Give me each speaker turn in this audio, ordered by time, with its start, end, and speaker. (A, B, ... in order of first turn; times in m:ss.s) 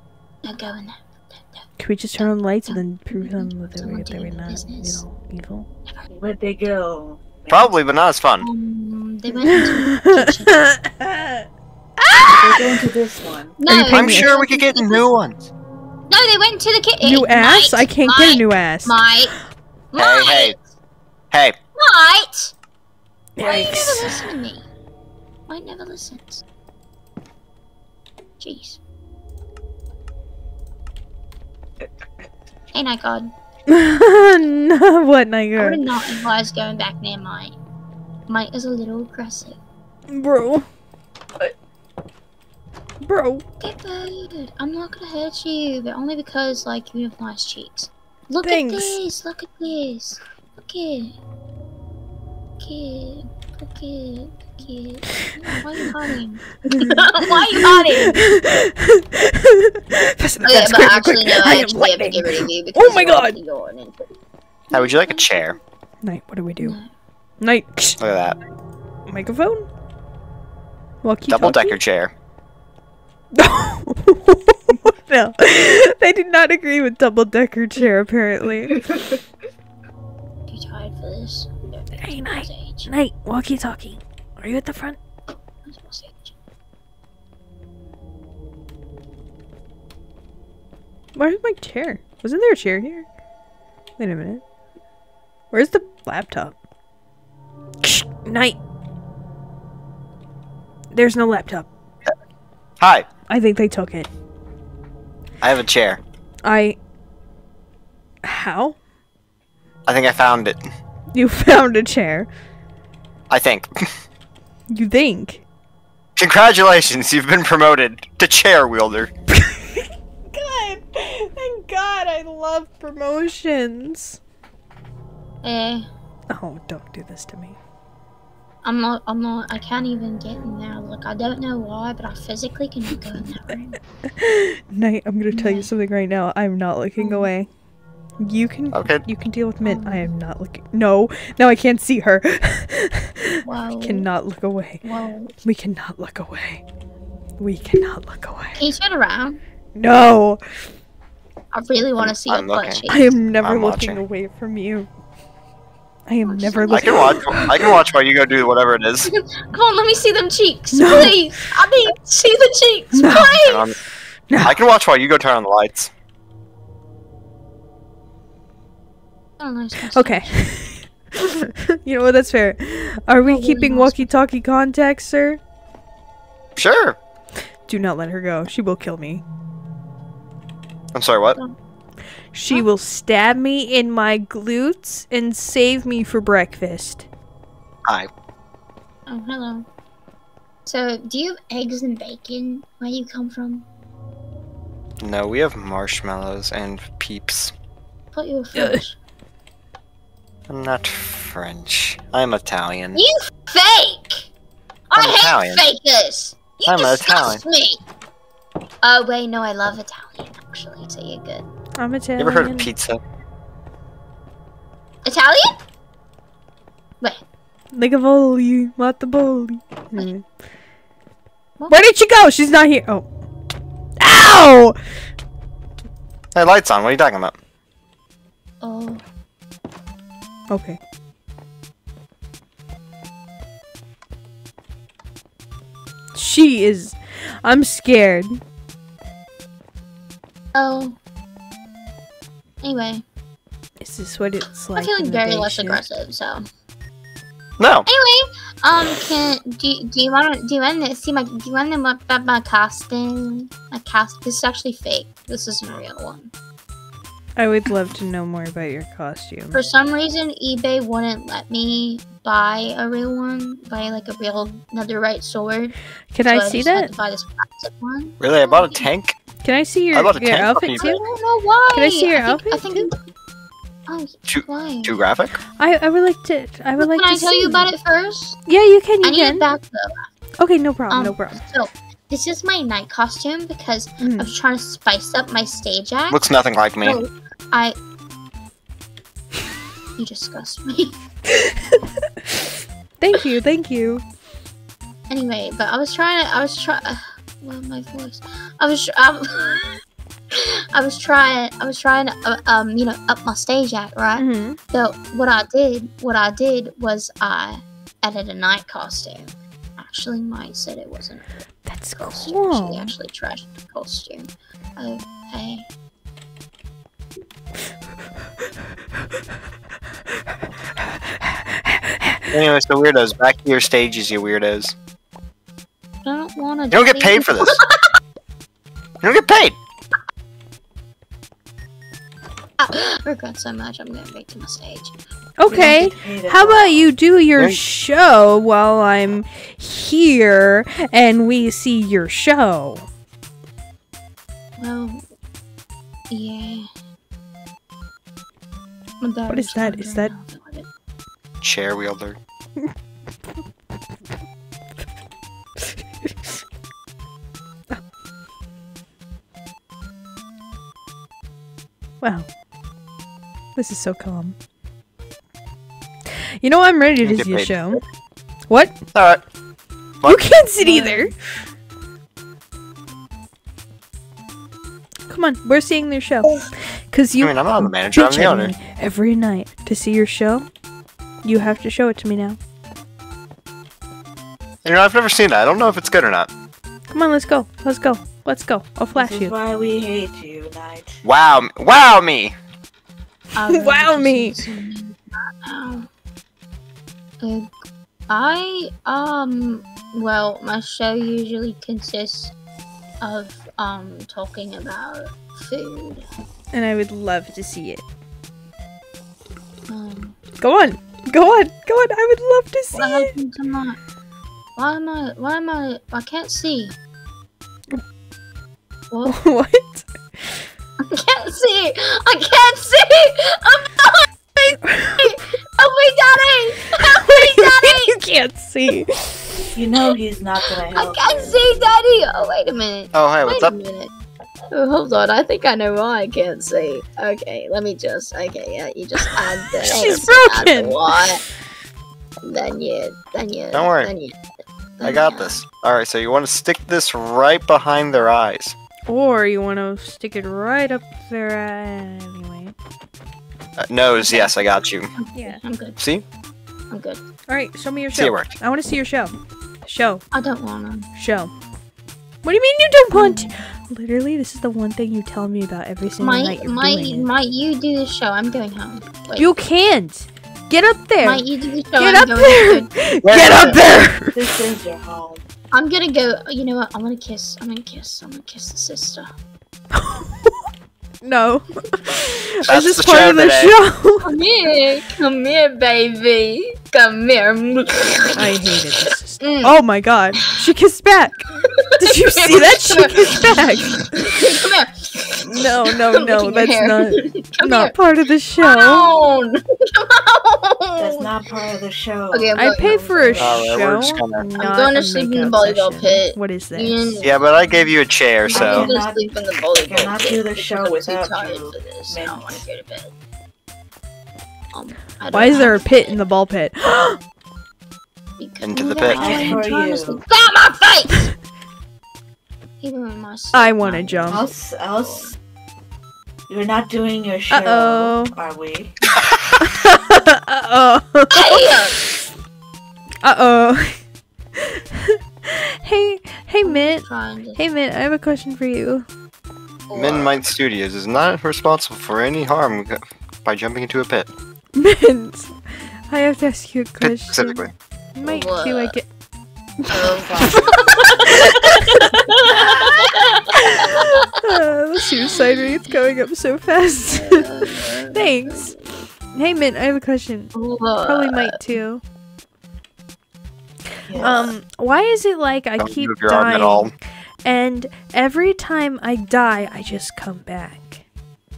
0:00.4-0:01.6 A
0:01.8-0:05.7 B
0:02.2-0:05.0 A
0:06.1-0:07.7 C
0:07.5-0:08.5 D
0:08.4-0:10.6 A
0:09.4-0:11.4 B
0:12.0-0:12.7 B
0:12.1-0:12.6 A
0:12.3-0:13.6 C
0:13.6-0:15.0 A
0:13.6-0:14.3 B
0:13.9-0:15.4 D
0:16.1-0:19.3 A
0:17.0-0:19.0 B
0:19.9-0:20.6 A
0:20.0-0:20.6 D
0:21.3-0:21.6 D
0:21.8-0:22.5 A
0:23.4-0:24.3 B
0:23.4-0:24.7 A
0:25.5-0:26.4 A
0:28.4-0:28.8 A
0:32.7-0:33.3 A
0:33.7-0:35.8 B
0:35.6-0:37.6 A
0:38.3-0:39.6 A
0:40.1-0:40.6 B
0:43.0-0:43.4 B
0:43.6-0:51.1 A
0:48.4-0:49.0 B
0:52.6-0:58.3 A
0:56.7-1:03.4 B
1:00.4-1:04.1 A
1:04.7-1:05.6 D
1:06.0-1:06.8 B
1:06.6-1:06.9 A
1:07.4-1:08.0 B
1:08.0-1:08.4 D
1:09.1-1:09.7 B
1:11.0-1:11.8 B
1:11.3-1:12.1 D
1:13.3-1:18.8 B
1:20.5-1:22.9 A
1:22.0-1:25.0 B
1:25.6-1:26.3 A
1:31.1-1:33.0 B
1:34.0-1:34.4 B
1:35.5-1:36.5 B
1:37.8-1:38.6 B
1:40.9-1:41.7 B
1:42.8-1:43.1 D
1:43.3-1:44.1 B
1:45.4-1:46.0 D
1:46.4-1:46.8 B
1:48.2-1:48.8 B
1:49.9-1:50.6 D
1:51.1-1:52.3 B
1:53.3-1:53.9 D
1:54.7-1:55.4 B
1:56.2-1:59.1 D
1:59.3-2:04.2 B
2:05.4-2:05.9 A
2:06.3-2:07.6 B
2:08.6-2:13.8 A
2:14.0-2:17.5 B
2:15.3-2:15.7 A
2:17.0-2:17.3 A
2:18.2-2:24.8 B
2:18.7-2:19.0 D
2:19.6-2:20.1 A
2:23.4-2:24.1 A
2:24.8-2:25.3 A
2:25.4-2:26.6 B
2:27.4-2:28.6 B
2:28.6-2:29.4 A
2:29.7-2:30.4 B
2:31.5-2:33.2 A
2:32.0-2:32.8 D
2:32.9-2:34.9 B
2:33.4-2:34.0 D
2:36.1-2:37.7 B
2:36.2-2:37.2 A
2:36.7-2:39.1 D
2:39.0-2:43.7 A
2:40.7-2:41.3 B
2:42.9-2:43.4 B
2:43.2-2:43.8 D
2:44.3-2:44.6 B
2:44.4-2:45.9 D
2:49.4-2:50.3 A
2:49.9-2:55.4 B
2:53.2-2:54.1 A
2:56.6-2:57.0 D
2:57.7-2:59.2 B
3:00.9-3:01.4 D
3:02.3-3:07.1 B
3:09.1-3:09.6 A
3:10.6-3:13.6 A
3:15.0-3:17.5 D
3:18.1-3:18.9 A
3:18.6-3:18.8 B
3:20.5-3:23.0 D
3:22.9-3:24.3 A
3:24.9-3:27.8 A
3:24.9-3:25.6 D
3:26.6-3:27.4 D
3:28.8-3:31.5 A
3:31.8-3:32.7 B
3:32.2-3:33.0 D
3:35.0-3:35.6 A
3:37.7-3:40.2 B
3:41.7-3:43.1 B
3:44.0-3:44.8 B
3:46.3-3:47.3 D
3:48.6-3:49.0 A
3:50.5-3:50.8 B
3:56.1-3:58.4 B
4:00.5-4:01.0 A
4:02.6-4:03.0 A
4:03.8-4:05.8 B
4:04.8-4:06.4 A
4:07.6-4:07.9 D
4:07.9-4:16.3 A
4:17.4-4:19.6 B
4:19.5-4:28.9 A
4:26.1-4:26.9 B
4:28.2-4:29.2 D
4:29.4-4:31.0 B
4:29.9-4:30.8 D
4:30.7-4:32.9 A
4:31.7-4:32.9 B
4:33.9-4:35.0 A
4:34.3-4:35.3 D
4:35.6-4:37.7 B
4:36.8-4:38.4 A
4:38.5-4:39.4 B
4:39.0-4:40.1 A
4:40.4-4:41.4 B
4:40.9-4:46.2 A
4:44.0-4:44.3 B
4:46.1-4:47.0 D
4:46.8-4:47.8 A
4:50.0-4:51.0 A
4:53.0-4:54.0 B
4:55.1-4:59.7 A
5:00.3-5:11.4 A
5:04.2-5:04.6 B
5:11.7-5:12.9 B
5:12.0-5:15.6 A
5:20.8-5:22.3 B
5:22.3-5:24.7 D
5:26.0-5:27.8 A
5:26.7-5:27.6 D
5:29.0-5:29.6 D
5:32.6-5:34.9 A
5:35.4-5:42.9 B
5:35.5-5:36.9 C
5:44.6-5:45.0 A
5:46.1-5:46.7 A
5:49.0-5:50.7 A
5:49.3-5:50.1 B
5:51.4-5:52.2 D
5:56.0-5:56.3 B
6:02.0-6:02.3 B
6:03.6-6:04.3 B
6:06.4-6:07.8 B
6:07.0-6:07.8 D
6:08.5-6:08.8 B
6:08.9-6:09.2 D
6:10.0-6:11.2 B
6:10.6-6:11.1 A
6:15.1-6:20.5 B
6:17.2-6:18.5 D
6:21.2-6:22.4 B
6:24.6-6:26.3 D
6:26.9-6:29.3 B
6:28.9-6:31.0 C
6:31.0-6:32.3 D
6:33.3-6:35.9 A
6:33.5-6:34.4 B
6:37.2-6:37.5 A
6:38.1-6:42.3 A
6:43.0-6:46.0 A
6:46.5-6:47.8 B
6:49.7-6:50.2 A
6:50.4-6:53.1 B
6:52.7-6:53.8 A
6:54.6-6:56.7 A
6:58.9-6:59.2 A
6:59.0-7:00.4 B
7:00.8-7:08.0 A
7:04.7-7:05.0 B
7:06.9-7:09.5 B
7:09.5-7:11.4 C
7:10.7-7:13.9 A
7:12.9-7:13.5 D
7:14.5-7:21.2 A
7:19.6-7:21.0 B
7:22.2-7:24.2 A
7:23.5-7:23.9 D
7:24.8-7:25.4 A
7:24.8-7:28.5 D
7:28.9-7:32.5 B
7:33.6-7:34.9 D
7:34.0-7:34.3 A
7:35.0-7:35.8 A
7:35.1-7:35.4 B
7:35.8-7:36.0 D
7:36.7-7:37.0 A
7:37.3-7:39.1 B
7:37.9-7:38.3 D
7:39.6-7:40.0 B
7:40.1-7:40.9 A
7:41.0-7:41.3 B
7:42.2-7:47.1 B
7:42.9-7:43.3 A
7:46.0-7:49.4 A
7:49.2-7:51.2 B
7:51.0-7:52.7 A
7:51.8-7:54.3 B
7:53.0-7:53.6 D
7:53.3-7:53.6 A
7:54.1-7:55.2 C
7:55.5-7:59.1 A
7:59.7-8:00.4 B
8:01.0-8:04.1 B
8:02.5-8:03.5 D
8:04.0-8:08.3 A
8:08.2-8:13.9 B
8:08.8-8:09.5 A
8:11.6-8:17.7 A
8:15.2-8:18.9 B
8:18.4-8:21.1 A
8:20.8-8:23.6 C
8:22.1-8:22.8 A
8:22.4-8:27.0 B
8:23.2-8:24.3 D
8:24.4-8:32.9 A
8:27.0-8:28.7 D
8:28.3-8:29.1 C
8:29.6-8:32.4 C
8:34.5-8:36.0 A
8:35.1-8:37.0 B
8:38.2-8:41.1 A
8:38.4-8:39.3 D
8:39.0-8:40.0 C
8:39.1-8:39.4 B
8:42.6-8:45.1 A
8:43.3-8:44.2 B
8:44.1-8:45.1 C
8:46.3-8:48.8 C
8:47.3-8:48.1 B
8:49.0-8:49.3 D
8:49.4-8:52.0 B
8:51.1-8:51.8 A
8:53.0-8:53.8 B
8:54.4-8:58.8 B
8:56.4-8:57.4 A
8:59.7-9:00.2 A
8:59.7-9:04.1 D
9:04.5-9:07.4 B
9:06.8-9:07.5 D
9:07.9-9:08.8 B
9:08.0-9:08.7 A
9:09.6-9:18.6 B
9:09.7-9:14.0 A
9:16.9-9:18.6 A
9:19.1-9:21.8 B
9:20.3-9:21.4 A
9:23.9-9:24.3 C
9:24.0-9:30.8 B
9:24.0-9:24.4 A
9:25.6-9:26.7 D